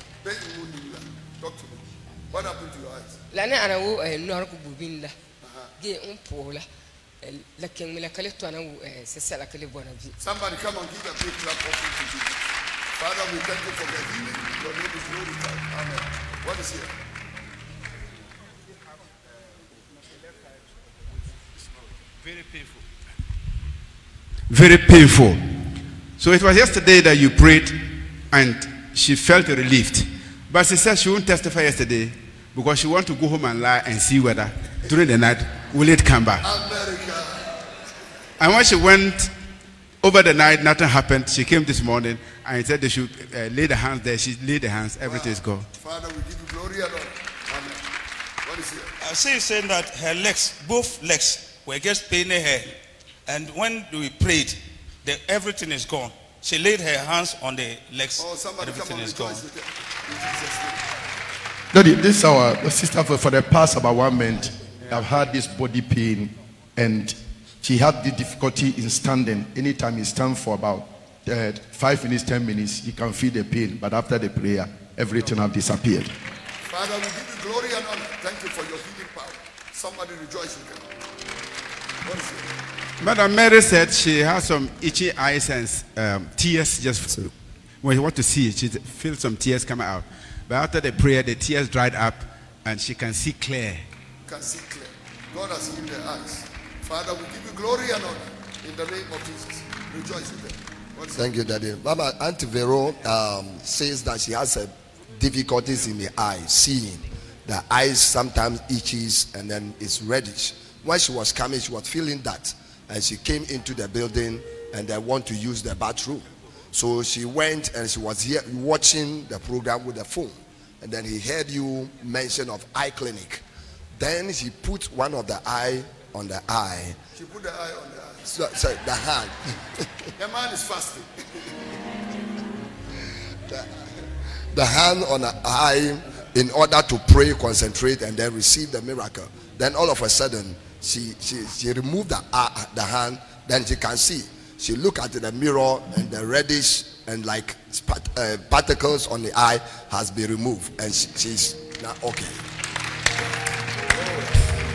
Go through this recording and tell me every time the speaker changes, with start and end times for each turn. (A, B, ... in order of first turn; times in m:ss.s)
0:00.2-0:03.2 A
0:03.3-0:05.1 B
0:05.4-0:05.7 A
0:05.8-0:06.6 B
0:07.2-0:10.2 B
0:10.2-0:12.4 A
0:13.0-0:16.9 A
0:24.5-0:25.4 C
0:26.2-0:36.4 C
0:36.4-0:37.6 A
0:38.4-0:39.3 C
0:40.0-0:45.7 C
0:45.0-0:47.8 A
0:48.4-0:48.9 A
0:49.0-0:52.7 D
0:53.3-0:59.4 D
0:58.2-1:00.9 A
1:01.7-1:16.1 E
1:16.7-1:20.9 A
1:22.0-1:22.5 A
1:23.0-1:27.3 C
1:27.8-1:33.8 C
1:34.2-1:41.3 A
1:41.1-2:07.0 F
2:07.1-2:08.5 A
2:08.3-2:09.9 F
2:10.2-2:11.8 A
2:14.5-2:32.4 F
2:33.9-2:34.4 A